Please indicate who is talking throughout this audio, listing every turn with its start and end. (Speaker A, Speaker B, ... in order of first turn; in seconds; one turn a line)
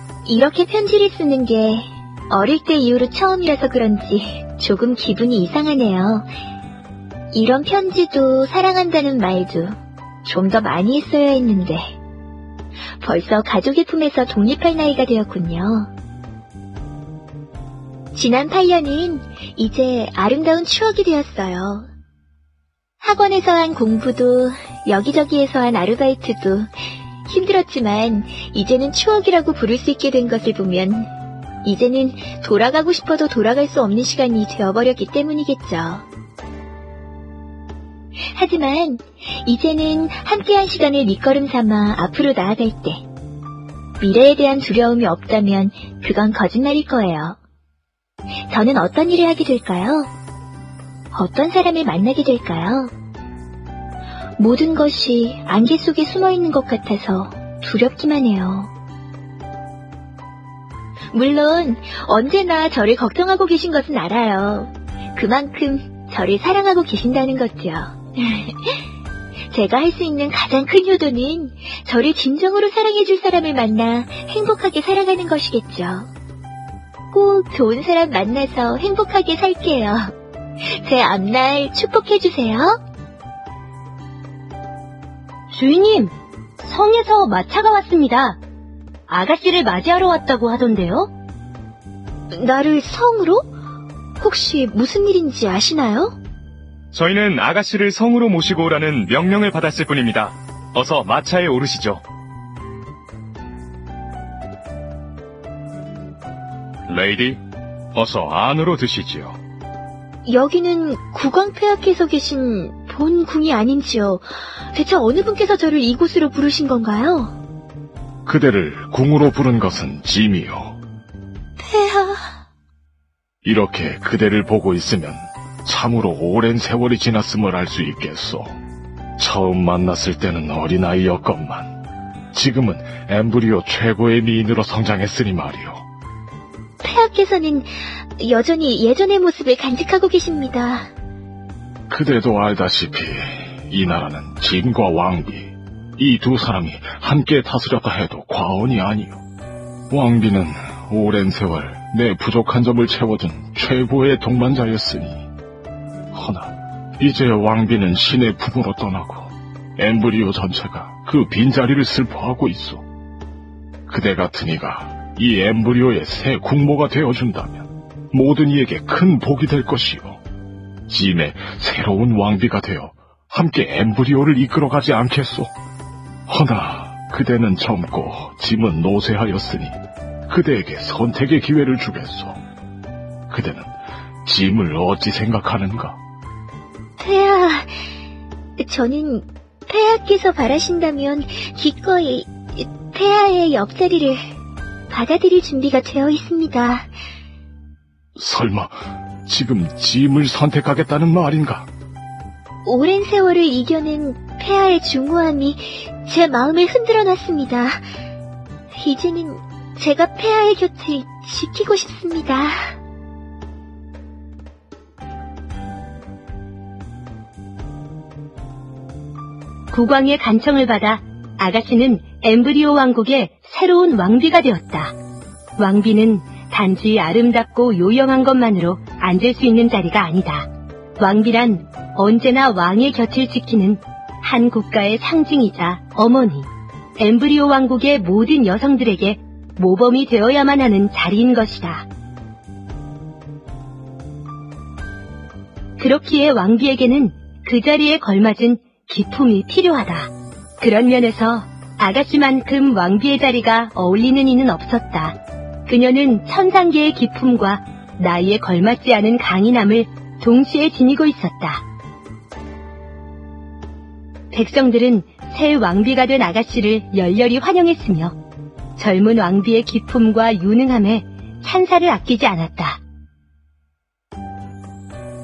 Speaker A: 0.2-6.3
Speaker A: 7.3-11.9
Speaker A: 13.0-15.9
Speaker A: 18.1-21.9
Speaker A: 23.0-26.7
Speaker A: 27.3-31.1
Speaker A: 31.6-36.1
Speaker A: 38.3-43.0
Speaker A: 44.0-47.4
Speaker A: 48.5-50.1
Speaker A: 51.1-52.9
Speaker A: 54.4-58.7
Speaker A: 61.1-68.8
Speaker A: 69.5-76.1
Speaker A: 77.1-80.1
Speaker A: 80.6-82.8
Speaker B: 85.5-88.4
Speaker B: 89.1-91.1
Speaker A: 92.3-93.5
Speaker A: 94.2-96.2
Speaker C: 96.9-102.0
Speaker C: 106.9-107.4
Speaker C: 107.9-109.4
Speaker A: 110.2-117.4
Speaker D: 118.3-120.8
Speaker A: 121.6-122.3
Speaker D: 123.4-128.5
Speaker D: 129.2-131.7
Speaker D: 132.3-135.8
Speaker A: 136.8-140.9
Speaker D: 141.9-149.2
Speaker D: 149.9-155.3
Speaker D: 156.1-162.8
Speaker D: 163.9-170.2
Speaker D: 170.9-175.5
Speaker D: 176.3-179.8
Speaker D: 180.3-182.4
Speaker D: 183.3-183.7
Speaker D: 184.2-186.0
Speaker A: 187.0-187.7
Speaker A: 188.6-194.2
Speaker A: 194.9-196.9
Speaker D: 198.2-201.7
Speaker A: 202.7-207.8
Speaker A: 208.7-212.7
Speaker B: 219.7-224.9
Speaker B: 225.6-230.5
Speaker B: 231.0-241.8
Speaker B: 245.8-261.6
Speaker B: 264.3-268.1
Speaker B: 268.8-272.8